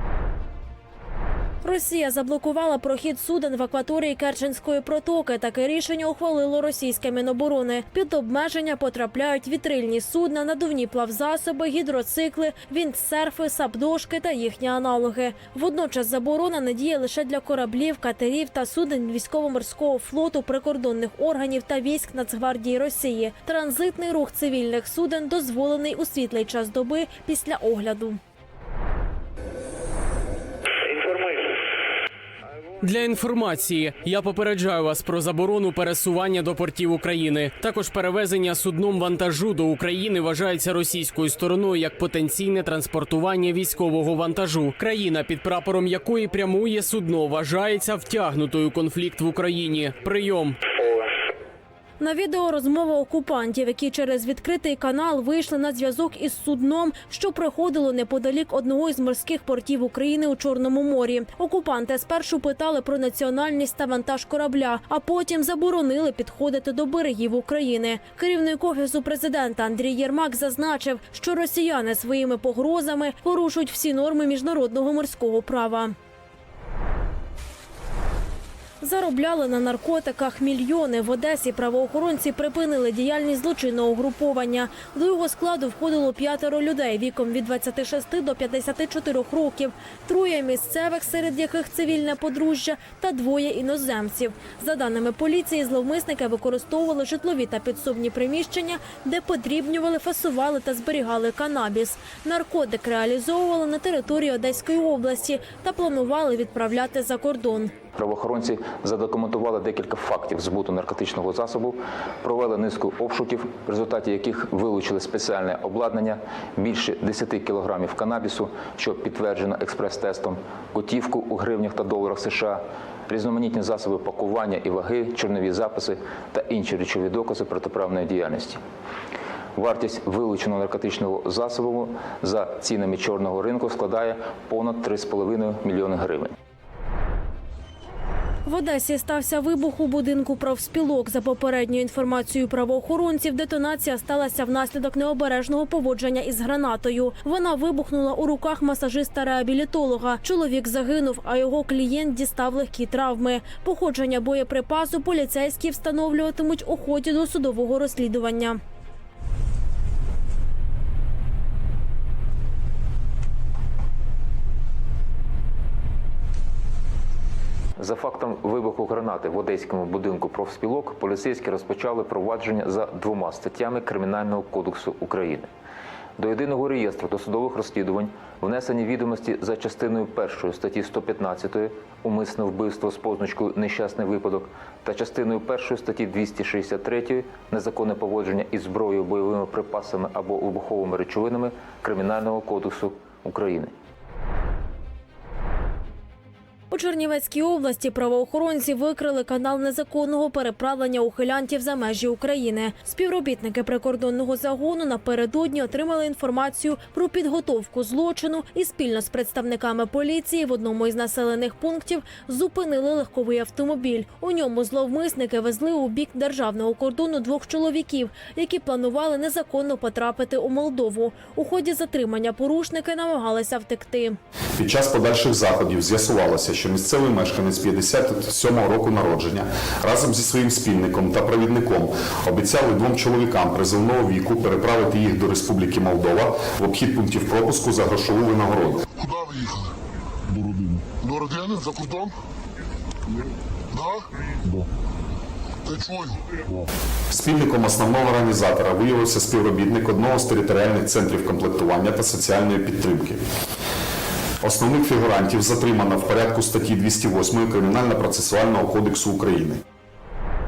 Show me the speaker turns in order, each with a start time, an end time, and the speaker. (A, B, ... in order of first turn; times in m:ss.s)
0:01.6-0:28.2 A
0:32.8-0:50.6 B
0:52.0-1:15.9 A
1:18.8-1:47.7 A
1:48.0-2:08.6 C
2:09.5-2:16.3 C
2:18.4-2:38.6 A
2:47.8-2:55.5 C
2:56.2-3:13.7 C
3:16.7-3:44.2 A
3:44.6-3:58.8 D
3:59.0-3:59.7 E
4:00.4-4:02.1 E
4:03.7-4:04.0 E
4:05.6-4:06.2 E
4:07.1-4:13.2 D
4:14.4-4:19.6 D